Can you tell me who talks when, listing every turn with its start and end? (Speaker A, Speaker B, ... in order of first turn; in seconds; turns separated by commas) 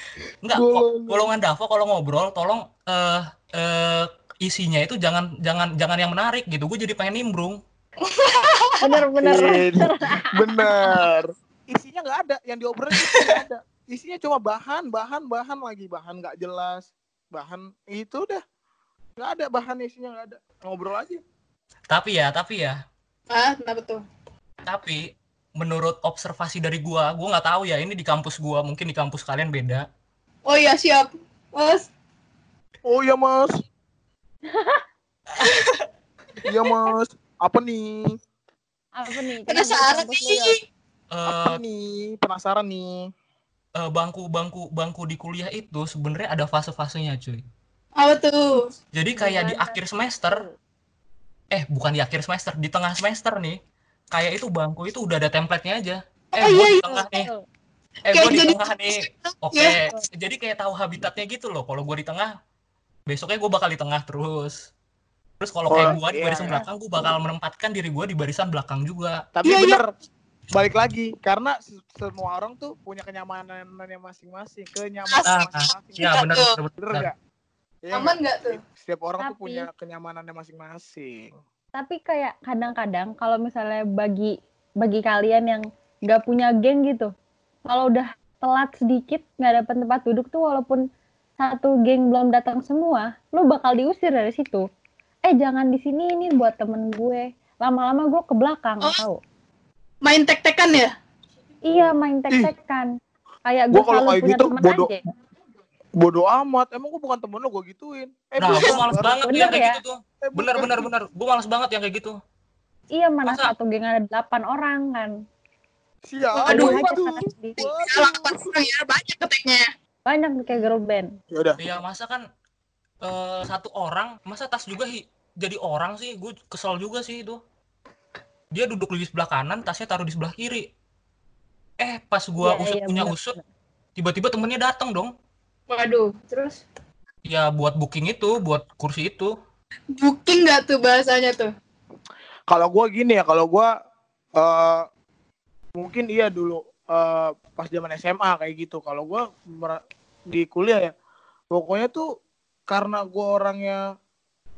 Speaker A: 0.4-7.6, Speaker B: 0.5-1.3, Speaker C: 8.1-8.9, Speaker D: 8.8-10.9, Speaker B: 9.2-18.4, Speaker C: 13.0-13.4, Speaker B: 19.2-21.2, Speaker A: 21.9-22.8, Speaker C: 23.3-24.0, Speaker A: 24.6-25.1, Speaker A: 25.6-29.9, Speaker C: 30.5-31.9, Speaker B: 32.9-33.6, Speaker D: 34.5-34.8, Speaker C: 35.4-35.8, Speaker B: 36.4-38.1, Speaker D: 39.0-40.6, Speaker C: 39.5-40.6, Speaker A: 41.1-41.6, Speaker B: 41.3-43.0, Speaker A: 43.8-47.4, Speaker C: 48.0-48.7, Speaker A: 48.9-50.4, Speaker D: 49.1-50.5, Speaker A: 51.5-53.6, Speaker A: 54.1-57.3, Speaker C: 56.4-57.0, Speaker D: 56.9-57.4, Speaker C: 58.1-59.9, Speaker A: 58.1-62.3, Speaker A: 63.1-64.7, Speaker A: 65.4-69.2, Speaker B: 65.7-66.6, Speaker B: 69.4-69.9, Speaker C: 69.5-69.8, Speaker B: 70.5-76.2, Speaker C: 75.1-76.5, Speaker A: 75.3-77.1, Speaker B: 76.8-77.1, Speaker B: 77.8-81.3, Speaker C: 77.9-78.6, Speaker D: 79.2-79.7, Speaker D: 81.8-87.1, Speaker D: 87.7-90.8, Speaker D: 91.4-94.6, Speaker D: 95.3-99.2, Speaker C: 100.0-100.9, Speaker D: 101.7-102.9, Speaker D: 103.5-105.0, Speaker B: 103.7-104.9, Speaker B: 106.0-109.6, Speaker A: 108.4-112.2, Speaker D: 109.3-109.8, Speaker B: 110.2-110.9, Speaker D: 113.0-115.1, Speaker B: 116.1-118.5, Speaker D: 116.3-117.7, Speaker C: 116.5-117.0, Speaker C: 117.8-119.7, Speaker D: 120.1-121.1, Speaker B: 121.3-121.6, Speaker A: 121.6-122.2, Speaker A: 123.0-127.4, Speaker A: 128.5-130.7, Speaker A: 131.8-133.3, Speaker D: 132.4-133.4, Speaker A: 134.0-135.1, Speaker C: 135.7-136.6, Speaker A: 137.3-139.3, Speaker C: 140.0-141.5, Speaker B: 142.5-143.7, Speaker B: 144.4-144.8, Speaker B: 145.8-149.8, Speaker B: 150.3-150.9, Speaker B: 151.5-152.1, Speaker B: 152.7-153.8